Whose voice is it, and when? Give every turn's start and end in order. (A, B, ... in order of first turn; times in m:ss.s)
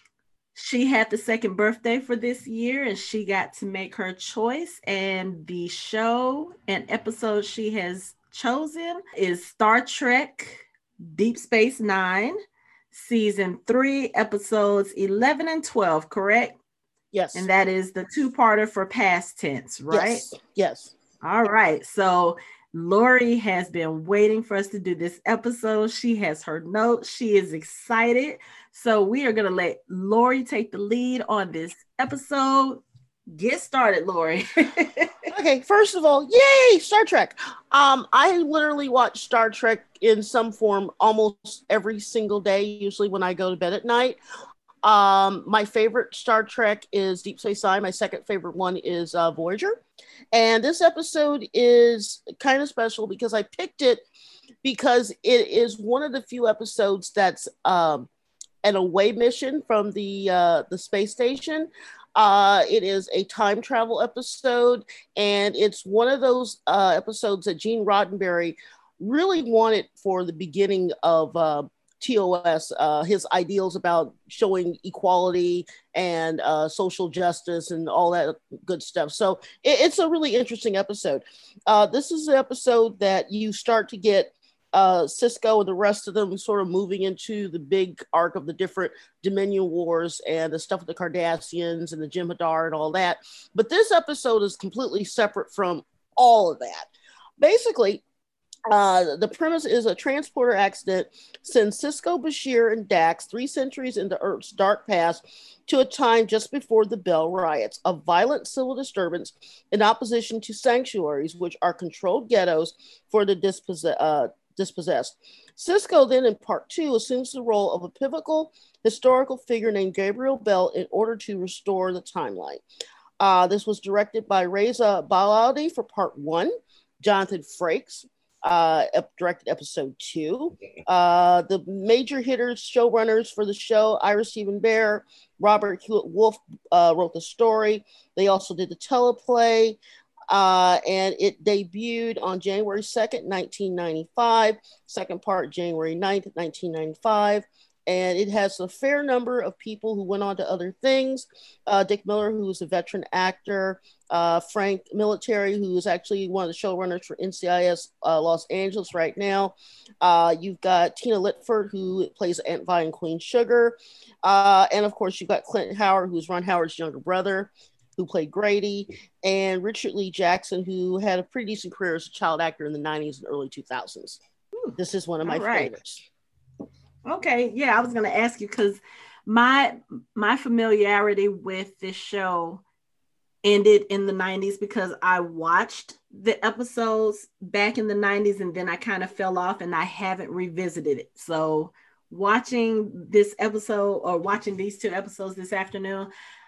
0:00.6-0:12.4 A
0:12.9-0:16.6 A
0:17.1-0:17.5 B
0:17.4-0:20.2 A
0:19.9-0:20.9 B
0:21.2-0:35.2 A
0:35.3-0:44.2 B
0:44.8-0:49.8 B
0:50.3-0:54.0 B
0:54.6-0:58.1 B
0:58.6-1:38.0 B
1:38.7-2:02.6 B
2:03.2-2:54.2 B
2:54.6-2:55.7 A
2:54.8-2:56.0 B
2:57.1-3:02.6 A
3:03.4-3:16.1 A